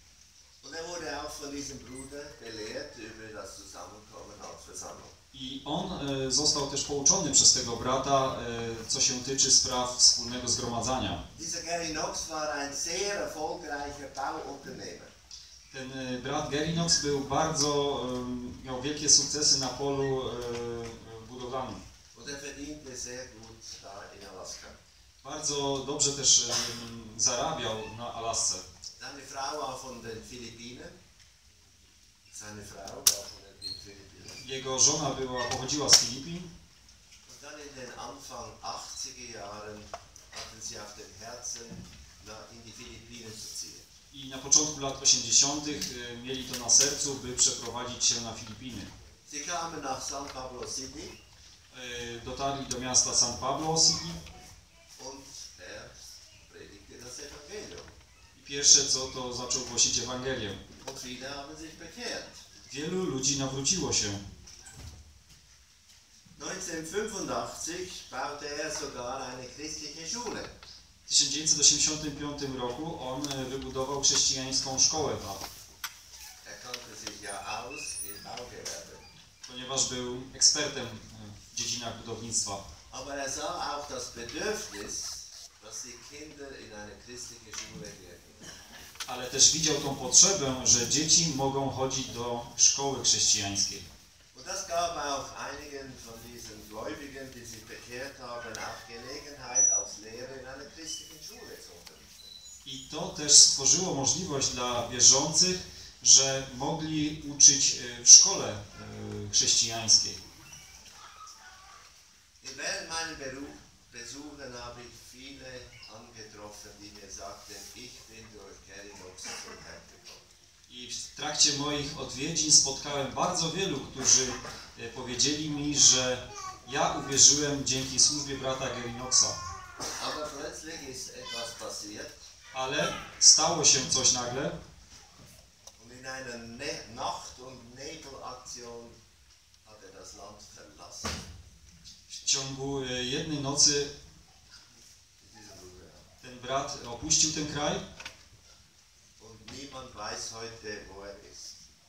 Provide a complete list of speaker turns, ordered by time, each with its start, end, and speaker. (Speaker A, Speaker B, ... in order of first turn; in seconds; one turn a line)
Speaker A: 0.6-5.1
Speaker B: 5.3-11.2
Speaker A: 11.3-15.1
Speaker B: 15.7-21.8
Speaker A: 22.1-24.8
Speaker B: 25.2-28.6
Speaker A: 29.0-31.0
Speaker A: 32.3-34.4
Speaker B: 34.4-36.5
Speaker A: 37.2-43.8
Speaker B: 44.1-48.9
Speaker A: 49.2-51.1
Speaker B: 51.7-54.2
Speaker A: 55.0-57.9
Speaker B: 58.3-60.6
Speaker A: 60.8-62.4
Speaker B: 62.7-64.2
Speaker A: 66.4-70.5
Speaker B: 71.0-75.4
Speaker A: 76.4-79.0
Speaker B: 79.4-82.6
Speaker A: 82.9-88.5
Speaker B: 89.0-93.8
Speaker A: 94.3-102.3
Speaker B: 102.6-110.2
Speaker A: 112.4-120.2
Speaker B: 120.7-129.4
Speaker A: 129.9-132.2
Speaker B: 132.5-134.5
Speaker A: 135.8-138.9
Speaker A: 139.6-141.2
Speaker B: 142.1-143.9
Speaker A: 145.2-146.0
Speaker B: 146.2-147.8
Speaker A: 149.2-151.6